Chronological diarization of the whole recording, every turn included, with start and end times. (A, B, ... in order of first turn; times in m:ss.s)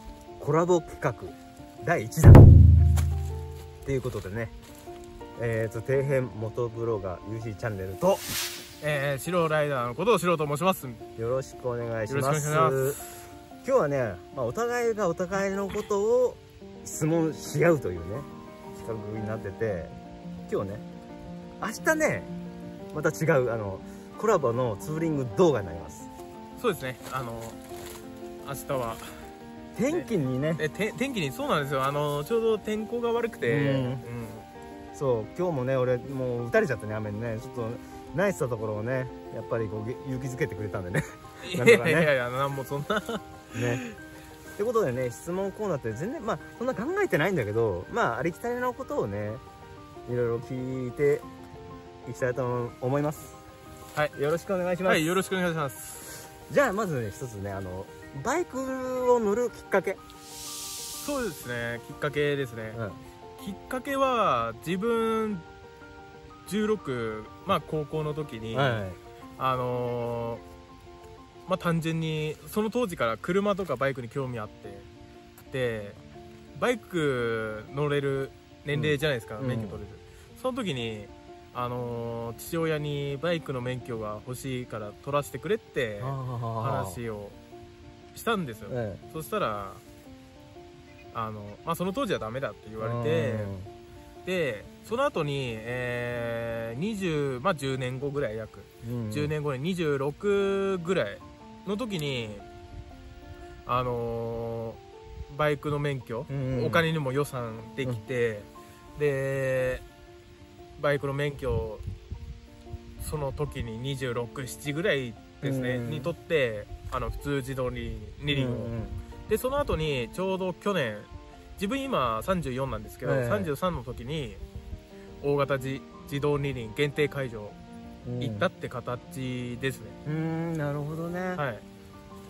0:00.4-0:02.5 A
0:03.8-0:04.5 A
0:05.4-0:08.3 A
0:08.8-0:11.0 B
0:11.2-0:13.0 A
0:12.1-0:13.1 B
0:13.6-0:18.3 A
0:18.8-0:20.0 A
0:20.5-0:20.8 A
0:21.6-0:22.3 A
0:22.9-0:26.1 A
0:26.6-0:27.6 B
0:28.4-0:29.3 B
0:29.8-0:30.6 A
0:29.9-0:34.5 B
0:33.4-0:34.0 A
0:34.9-0:42.1 A
0:41.4-0:44.0 B
0:43.5-0:43.8 A
0:44.6-0:49.4 A
0:50.1-0:51.3 A
0:52.1-0:53.4 A
0:54.2-0:55.1 A
0:54.9-0:56.1 B
0:56.5-1:00.0 A
1:01.0-1:02.8 B
1:02.7-1:03.0 A
1:03.4-1:05.4 B
1:06.5-1:08.8 B
1:08.5-1:09.0 A
1:09.4-1:10.4 B
1:11.5-1:14.9 B
1:15.5-1:16.0 B
1:16.6-1:27.4 B
1:18.7-1:19.8 A
1:26.0-1:27.0 A
1:28.1-1:29.8 B
1:28.7-1:29.0 A
1:31.1-1:33.5 B
1:32.8-1:33.7 A
1:34.2-1:42.5 B
1:38.8-1:39.3 A
1:43.7-1:49.8 B
1:46.3-1:46.9 A
1:50.8-1:51.8 B
1:53.0-1:58.7 B
1:55.4-1:56.1 A
1:58.3-1:59.0 A
1:59.3-2:04.4 B
2:03.0-2:03.5 A
2:05.2-2:07.6 B
2:08.0-2:08.5 A
2:08.2-2:10.0 B
2:10.0-2:11.4 A
2:11.4-2:11.6 B